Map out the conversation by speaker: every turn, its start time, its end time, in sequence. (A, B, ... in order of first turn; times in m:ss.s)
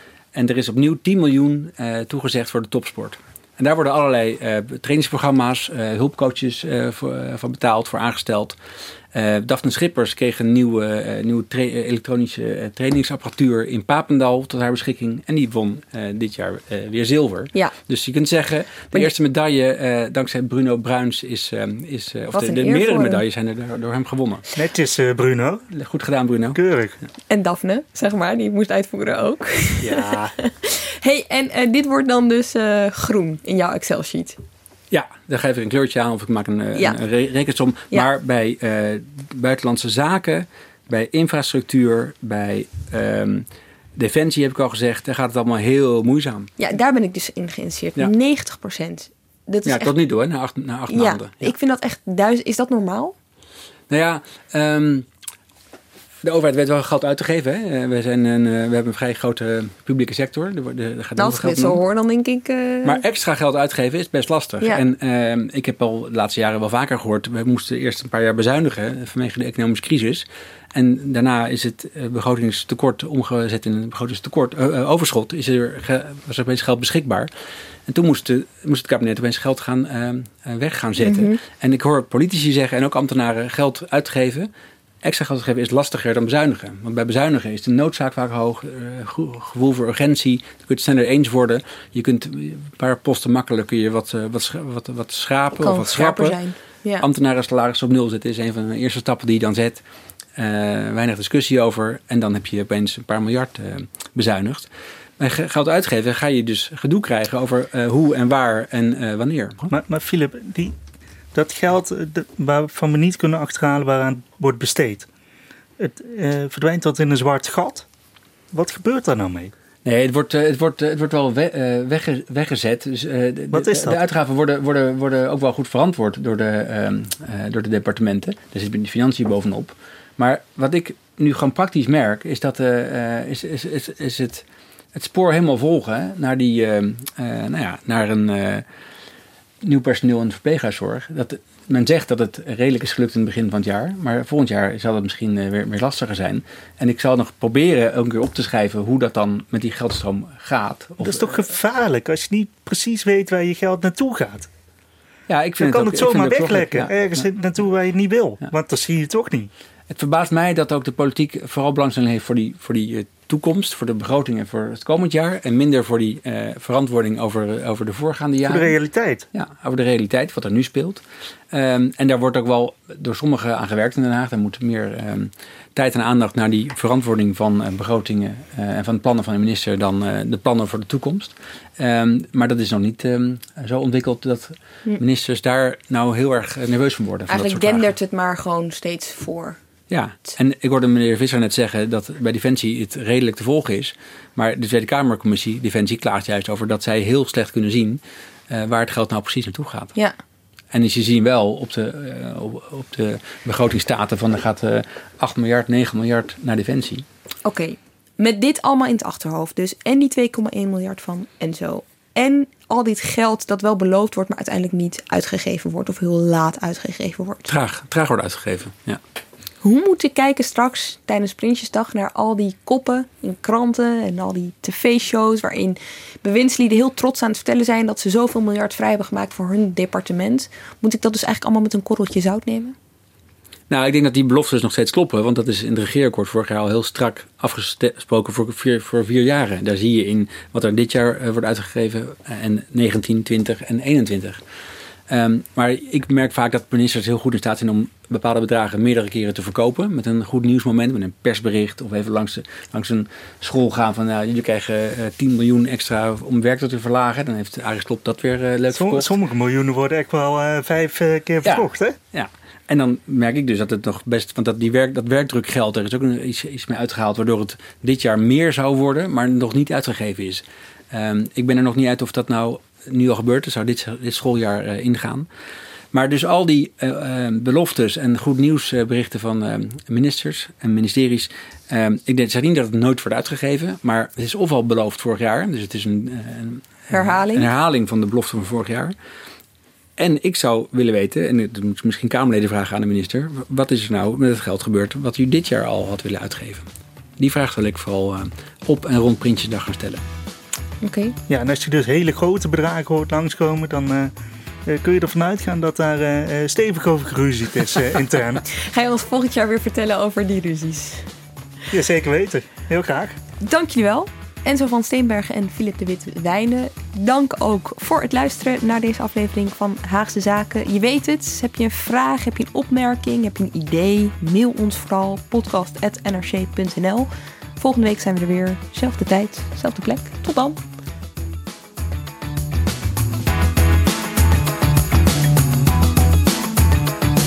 0:00.3-0:08.6 A
0:09.1-0:24.4 A
0:22.3-0:23.2 B
0:24.6-0:25.6 C
0:25.7-0:26.6 A
0:26.5-0:27.0 C
0:27.3-0:34.4 B
0:29.8-0:30.3 C
0:34.9-0:46.5 A
0:46.6-0:49.9 B
0:49.6-0:51.6 A
0:50.9-0:53.2 B
0:53.9-0:55.1 A
0:56.2-1:01.8 A
1:01.2-1:03.0 B
1:02.8-1:17.3 A
1:17.9-1:24.5 A
1:21.0-1:21.4 B
1:25.0-1:36.4 A
1:35.6-1:37.1 B
1:37.0-1:39.8 A
1:40.4-1:44.7 A
1:45.2-1:49.7 A
1:49.7-1:50.8 C
1:51.3-1:55.1 C
1:55.8-1:57.9 C
1:58.5-1:59.5 C
1:59.8-2:14.4 A
2:03.5-2:04.0 C
2:15.0-2:18.6 A
2:19.6-2:31.4 A
2:31.0-2:34.5 C
2:35.3-2:37.2 A
2:35.6-2:39.5 C
2:39.9-2:48.8 A
2:48.4-2:49.3 C
2:49.3-2:51.0 A
2:51.5-3:07.9 A
3:07.3-3:09.6 B
3:09.9-3:19.9 A
3:20.7-3:27.0 A
3:27.4-3:37.5 B
3:37.5-3:39.0 A
3:39.6-3:52.8 B
3:53.7-4:04.4 A
4:05.1-4:19.1 A
4:18.7-4:22.0 C
4:21.4-4:35.3 A
4:35.9-4:48.9 A
4:46.9-4:47.5 B
4:50.0-4:56.7 A
4:57.2-5:00.0 A
5:00.8-5:01.2 B
5:01.3-5:04.1 C
5:04.7-5:08.4 C
5:08.5-5:11.1 B
5:11.7-5:13.2 C
5:13.4-5:30.6 B